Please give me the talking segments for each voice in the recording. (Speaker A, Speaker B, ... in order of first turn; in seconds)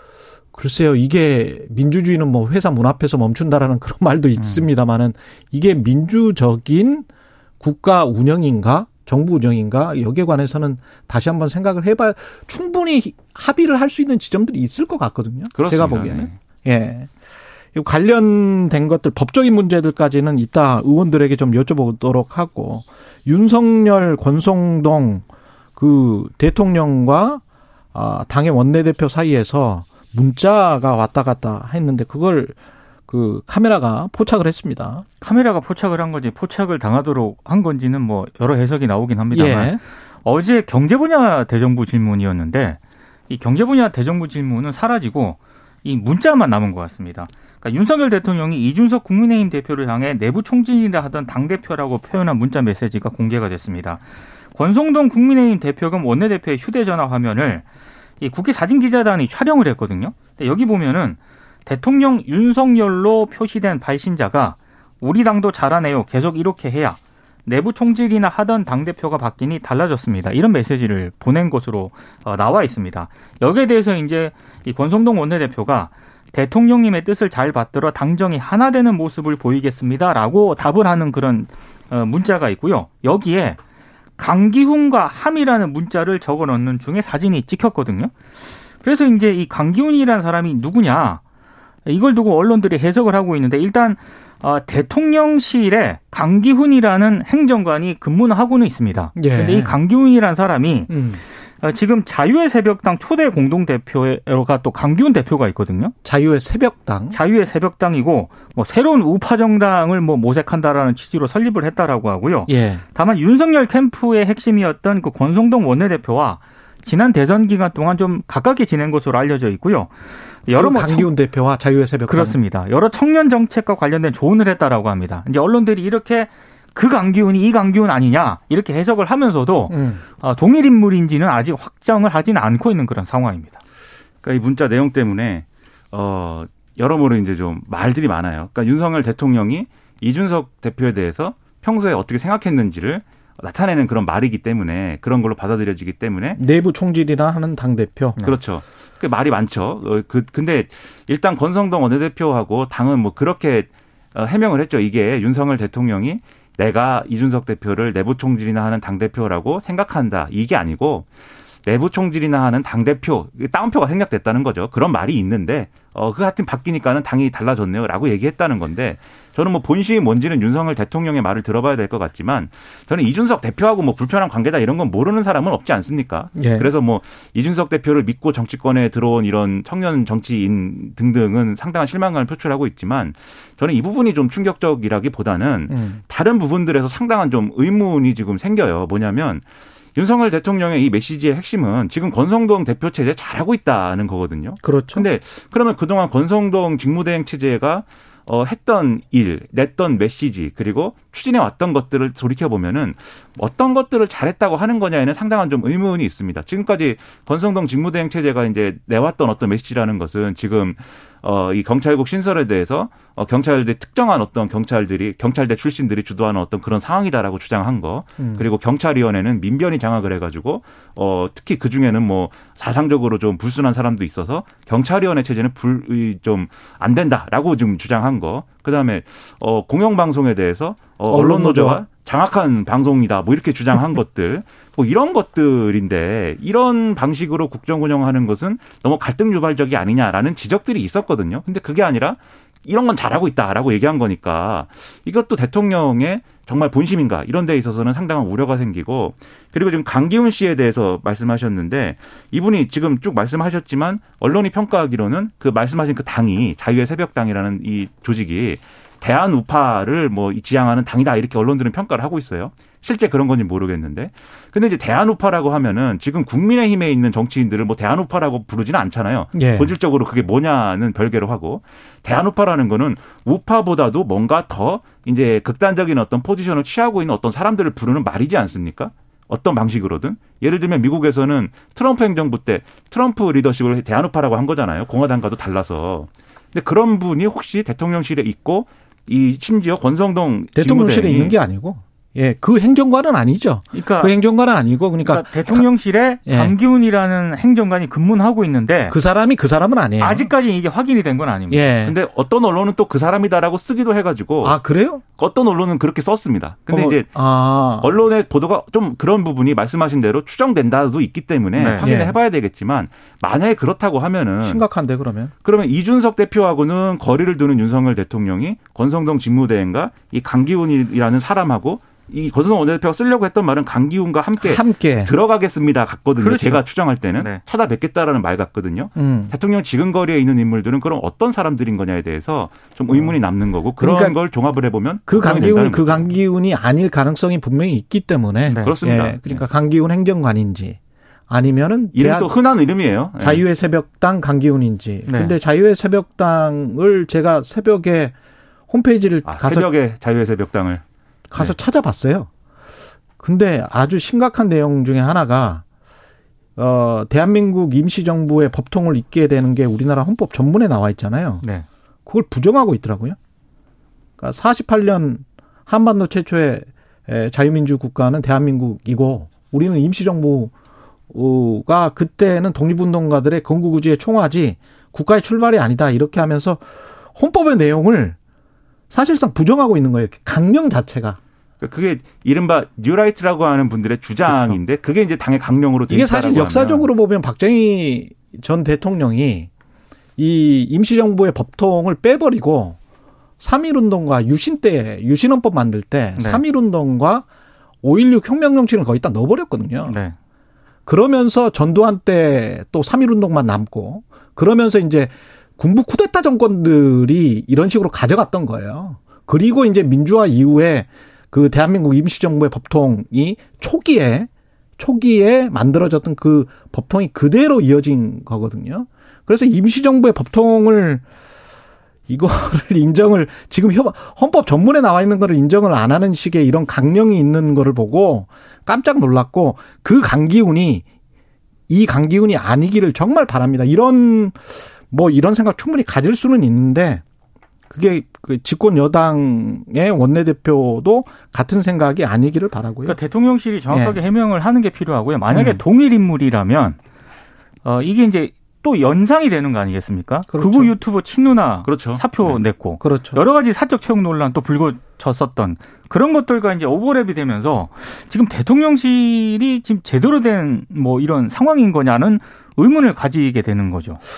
Speaker A: 0.5-7.1, 7.6-17.1, 17.7-25.2, 25.8-27.4, 27.9-32.5, 33.1-35.0, 39.3-39.8, 99.2-99.7, 100.9-101.2, 106.0-107.2, 112.5-112.8, 120.5-122.4, 129.7-130.0, 146.3-148.2, 176.4-176.7, 185.7-186.0, 194.6-195.1, 218.2-218.4, 231.1-231.8, 269.3-269.7, 290.6-295.7, 296.2-296.5, 298.9-300.3, 301.5-301.9, 304.4-305.0, 306.7-307.9, 311.6-312.2, 314.4-315.3, 324.4-325.1, 328.9-329.3, 333.8-334.1, 335.1-340.8, 341.3-342.3, 343.2-348.1, 348.7-349.7, 351.3-352.3, 353.2-355.6, 356.6-361.4, 362.1-363.2, 364.2-370.5, 371.1-378.2, 378.9-381.2, 384.3-384.6, 385.9-389.5, 390.2-392.8, 393.4-397.2, 397.8-399.9, 400.9-421.0, 422.1-430.8, 431.7-437.0, 437.7-443.0, 443.7-444.0, 445.3-445.6, 450.3-450.7, 452.8-453.2
Speaker B: 15.5-16.4, 134.2-146.4, 148.2-161.1, 161.7-189.4, 189.9-291.4, 301.8-304.6, 305.2-307.1, 307.8-314.6, 315.4-336.1, 338.5-339.4, 341.9-343.4, 349.2-350.8, 381.6-386.9, 451.6-452.4
Speaker C: 35.2-54.0, 54.5-57.6, 58.2-83.6, 84.2-88.1, 88.8-91.2, 91.8-100.9, 101.6-105.9, 107.1-119.9, 120.5-121.1, 122.1-133.6, 293.7-294.1, 295.0-298.9, 300.0-301.6, 311.6-311.8, 326.2-326.6, 338.5-338.7, 345.1-345.4, 396.2-396.4, 399.9-400.1, 442.9-446.8, 447.6-464.0